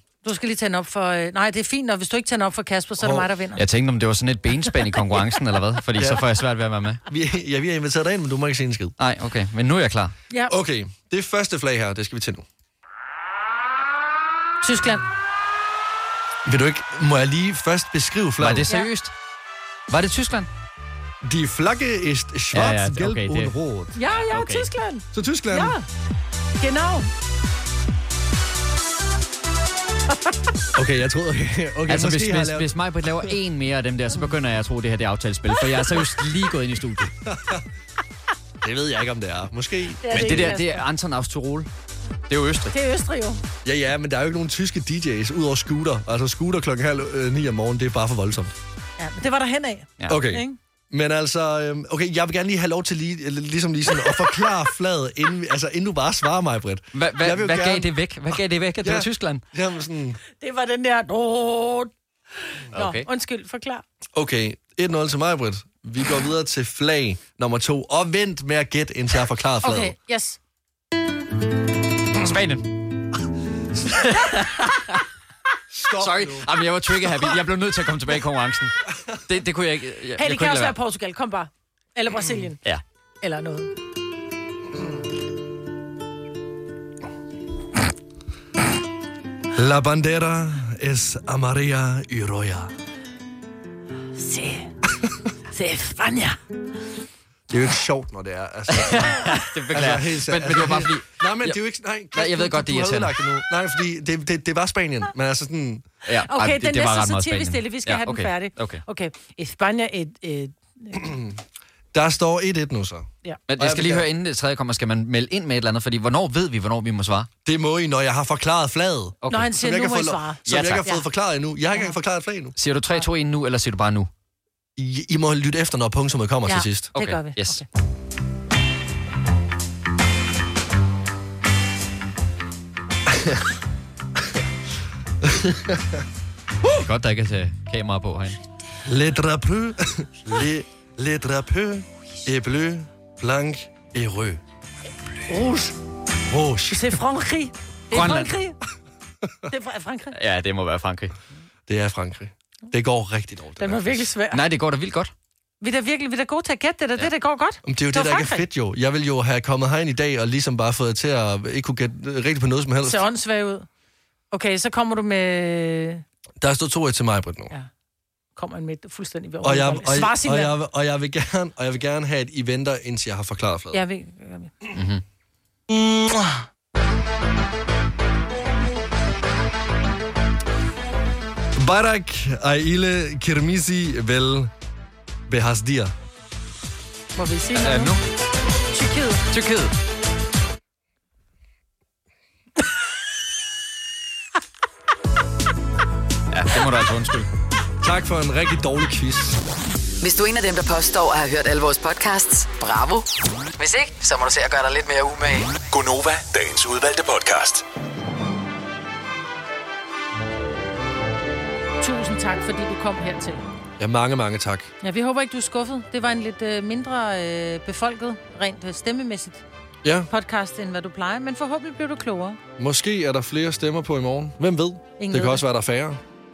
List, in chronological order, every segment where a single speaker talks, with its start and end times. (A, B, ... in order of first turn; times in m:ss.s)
0:00.2-0:03.6 A
0:03.0-0:03.3 B
0:03.6-0:07.0 C
0:06.0-0:06.3 B
0:07.1-0:08.9 B
0:09.0-0:10.1 C
0:10.3-0:10.6 A
0:10.5-0:12.4 B
0:14.6-0:15.0 A
0:16.4-0:18.7 B
0:18.4-0:19.1 C
0:19.9-0:20.5 C
0:21.2-0:23.9 B
0:22.5-0:23.5 C
0:24.0-0:25.8 A
0:24.2-0:24.7 C
0:25.1-0:25.8 B
0:26.6-0:27.1 A
0:30.7-0:32.7 B
0:31.9-0:37.1 C
0:37.2-0:37.6 B
0:38.6-0:40.5 B
0:40.0-0:40.8 A
0:40.1-0:41.7 C
0:42.3-0:42.7 C
0:42.7-0:43.4 A
0:43.6-0:48.5 B
0:49.0-0:50.6 A
0:50.1-1:00.2 B
0:56.9-0:59.4 C
1:00.4-1:01.9 A
1:02.5-1:03.8 A
1:02.7-1:03.0 C
1:04.1-1:09.9 B
1:09.6-1:10.4 A
1:12.2-1:12.8 C
1:13.9-1:14.9 C
1:15.7-1:16.5 B
1:16.0-1:20.7 C
1:20.2-1:22.6 A
1:23.2-1:23.7 A
1:29.5-1:32.7 B
1:34.2-1:34.7 A
1:35.5-1:36.4 A
1:37.5-1:45.8 B
1:38.7-1:41.6 C
1:42.1-1:43.1 C
1:46.0-1:48.8 C
1:46.2-1:51.0 A
1:50.9-1:54.1 B
1:53.5-1:57.3 C
1:57.4-2:02.5 B
1:59.2-1:59.5 C
1:59.3-2:01.0 A
2:00.4-2:00.8 C
2:02.6-2:04.1 C
2:04.8-2:06.9 B
2:06.4-2:07.6 A
2:07.0-2:07.6 C
2:13.1-2:13.4 B
2:15.2-2:16.0 B
2:16.7-2:18.4 C
2:18.8-2:24.4 B
2:25.3-2:25.7 B
2:26.3-2:26.8 B
2:26.7-2:28.6 A
2:27.9-2:28.3 C
2:29.5-2:30.1 A
2:30.1-2:31.1 C
2:31.7-2:34.1 B
2:33.6-2:34.4 A
2:34.3-2:35.1 C
2:35.6-2:38.4 A
2:37.6-2:43.0 B
2:42.8-2:43.7 A
2:44.3-2:46.0 A
2:46.4-2:47.5 B
2:48.4-2:50.5 A
2:49.4-2:53.8 B
2:53.7-2:54.5 A
2:54.7-2:55.0 C
3:01.5-3:04.5 B
3:05.3-3:05.9 B
3:07.2-3:07.9 A
3:07.6-3:08.0 C
3:08.7-3:09.3 A
3:09.3-3:09.7 C
3:16.3-3:17.3 C
3:17.8-3:19.4 B
3:20.0-3:23.1 D
3:23.6-3:25.6 D
3:25.7-3:27.6 E
3:31.8-3:33.4 A
3:33.8-3:34.7 B
3:34.8-3:39.4 A
3:39.8-3:40.1 B
3:40.1-3:42.4 A
3:42.6-3:46.0 B
3:45.0-3:45.4 A